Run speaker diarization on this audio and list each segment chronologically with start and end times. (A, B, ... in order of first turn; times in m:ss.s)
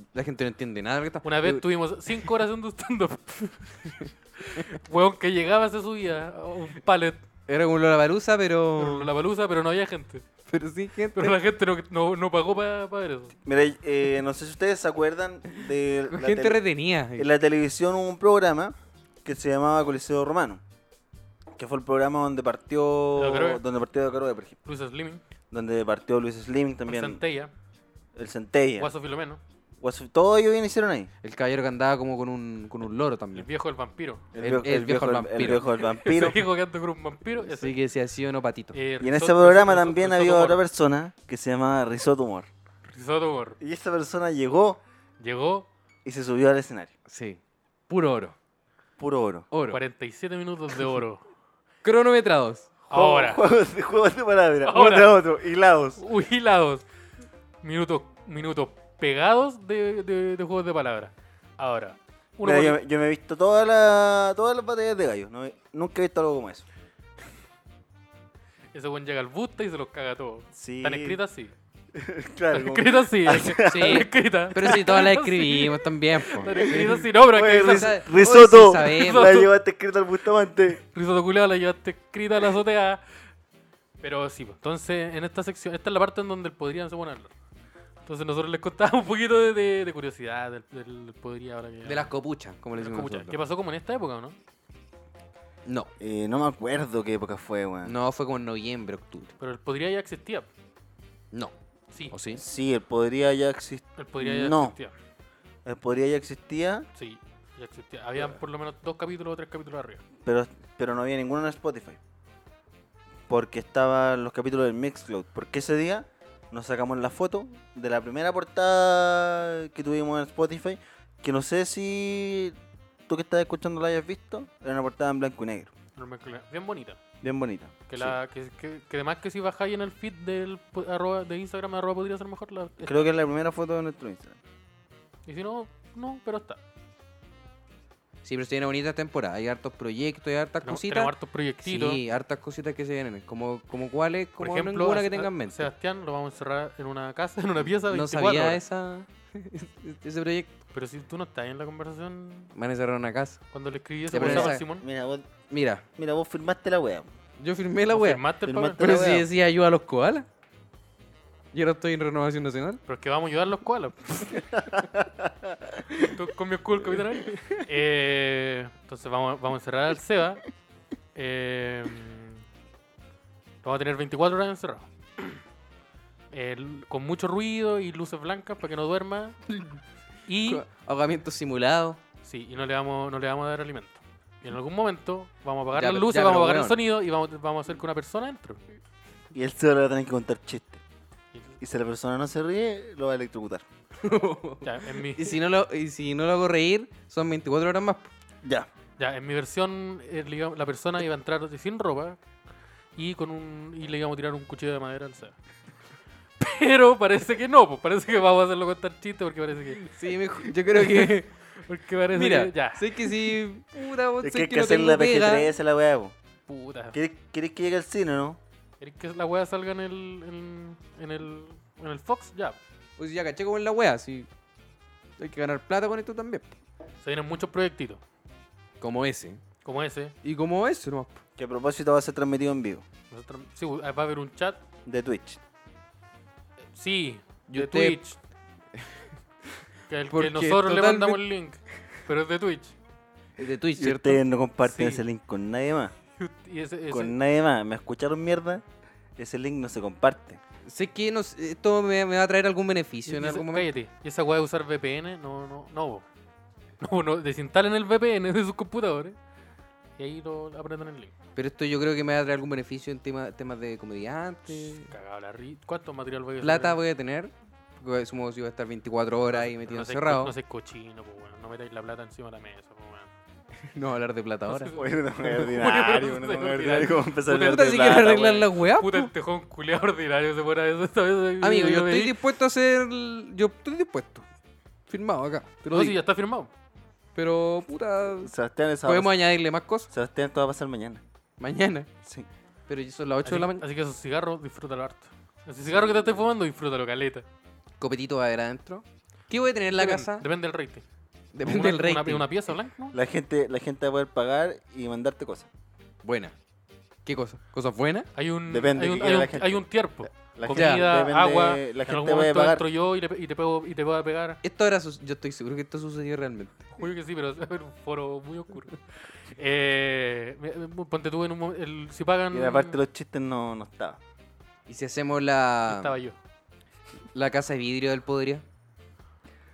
0:00.1-0:01.6 A
0:01.2-0:07.2 B
0:07.5-0:09.1 A
0:08.8-0:10.2 B
0:10.5-0:11.4 A
0:11.2-0:13.4 B
0:13.4-0:16.6 C
0:16.1-0:17.3 A
0:17.2-0:20.6 C
0:21.6-0:24.6 C
0:23.2-0:23.6 B
0:24.6-0:25.2 B
0:25.5-0:27.2 C
0:26.9-0:27.5 B
0:28.2-0:28.9 C
0:28.8-0:29.4 B
0:29.8-0:31.1 C
0:31.2-0:33.5 A
0:33.4-0:34.3 B
0:34.3-0:36.4 C
0:34.4-0:35.7 A
0:35.8-0:37.8 B
0:37.4-0:38.8 A
0:38.7-0:40.6 B
0:39.0-0:42.5 C
0:42.9-0:43.6 B
0:43.6-0:44.8 C
0:45.2-0:45.7 B
0:46.0-0:46.9 C
0:47.1-0:48.4 A
0:49.0-0:49.5 C
0:49.5-0:49.8 A
0:49.7-0:51.2 B
0:51.8-0:52.7 A
0:52.9-0:53.4 B
0:52.9-0:56.0 C
0:54.6-0:55.2 B
0:56.0-0:56.8 B
0:57.6-1:02.8 B
1:02.4-1:06.7 C
1:08.7-1:11.5 B
1:10.5-1:11.2 C
1:11.9-1:14.0 C
1:12.5-1:18.0 B
1:13.6-1:19.4 A
1:16.6-1:20.8 C
1:18.8-1:19.5 B
1:20.8-1:23.0 B
1:24.0-1:27.3 B
1:28.0-1:32.1 B
1:31.8-1:33.4 A
1:32.8-1:34.4 B
1:36.0-1:38.0 C
1:37.8-1:39.3 A
1:39.4-1:40.5 B
1:42.1-1:42.4 A
1:42.3-1:44.8 C
1:44.0-1:44.9 B
1:45.6-1:46.9 C
1:47.0-1:50.0 B
1:50.2-1:52.0 C
1:53.3-2:02.6 C
2:03.1-2:05.7 C
2:06.0-2:07.0 B
2:07.2-2:08.1 C
2:07.9-2:13.0 B
2:12.8-2:14.4 C
2:15.3-2:16.6 B
2:18.2-2:25.7 A
2:20.6-2:22.0 B
2:24.4-2:28.6 B
2:27.9-2:30.5 A
2:30.7-2:32.5 B
2:32.6-2:33.4 A
2:33.5-2:34.9 B
2:34.1-2:34.6 A
2:34.1-2:35.3 C
2:35.5-2:35.9 A
2:36.0-2:37.1 C
2:37.4-2:38.2 A
2:37.9-2:38.9 B
2:38.5-2:39.3 C
2:38.8-2:40.3 A
2:41.5-2:42.8 A
2:42.9-2:44.4 B
2:44.4-2:46.1 C
2:46.1-2:50.4 B
2:51.2-2:52.4 B
2:53.6-2:55.4 B
2:56.3-2:59.4 B
3:00.3-3:00.6 B
3:00.4-3:02.0 A
3:02.2-3:08.6 B
3:05.7-3:06.8 A
3:09.3-3:10.8 C
3:11.3-3:11.6 B
3:11.6-3:13.7 C
3:14.0-3:18.1 A
3:14.6-3:15.4 B
3:19.0-3:22.2 B
3:23.0-3:25.4 B
3:26.4-3:29.9 B
3:29.8-3:31.3 A
3:30.7-3:33.1 B
3:32.1-3:35.5 A
3:34.2-3:36.1 C
3:36.5-3:37.0 B
3:36.9-3:38.4 C
3:38.8-3:42.6 B
3:43.0-3:44.3 A
3:45.2-3:46.6 A
3:47.0-3:48.0 B
3:48.8-3:49.4 A
3:49.6-3:50.2 B
3:50.2-3:51.2 A
3:51.4-3:52.8 C
3:53.1-3:54.6 B
3:54.9-3:55.4 C
3:56.7-3:58.2 B
3:57.5-3:58.0 A
3:59.9-4:02.8 B
4:00.1-4:01.2 A
4:03.4-4:04.2 A
4:03.8-4:05.9 C
4:04.6-4:05.0 B
4:06.2-4:07.2 B
4:06.9-4:08.6 C
4:09.2-4:10.4 C
4:10.7-4:13.7 A
4:13.1-4:16.1 B
4:16.8-4:19.2 B
4:20.0-4:21.1 B
4:21.4-4:24.9 A
4:24.8-4:26.8 B
4:26.4-4:30.3 A
4:29.3-4:33.1 B
4:33.7-4:34.7 A
4:34.5-4:37.1 B
4:34.8-4:38.5 C
4:37.3-4:39.1 A
4:38.8-4:42.2 B
4:41.4-4:44.2 A
4:44.9-4:46.0 A
4:45.7-4:46.5 B
4:47.2-4:48.3 A
4:48.2-4:49.2 C
4:48.8-4:49.9 A
4:49.9-4:51.0 C
4:51.4-4:51.9 A
4:52.7-4:53.6 A
4:53.2-4:57.2 B
4:57.8-5:00.3 A
4:59.7-5:00.8 B
5:01.3-5:02.3 A
5:01.4-5:03.0 B
5:02.9-5:05.5 C
5:06.0-5:06.3 A
5:07.1-5:08.1 A
5:08.2-5:14.4 B
5:08.5-5:09.6 C
5:10.4-5:12.6 C
5:10.5-5:10.9 A
5:14.4-5:16.7 A
5:16.8-5:22.8 B
5:22.3-5:24.0 C
5:24.7-5:26.0 A
5:25.7-5:26.2 B
5:27.1-5:28.4 A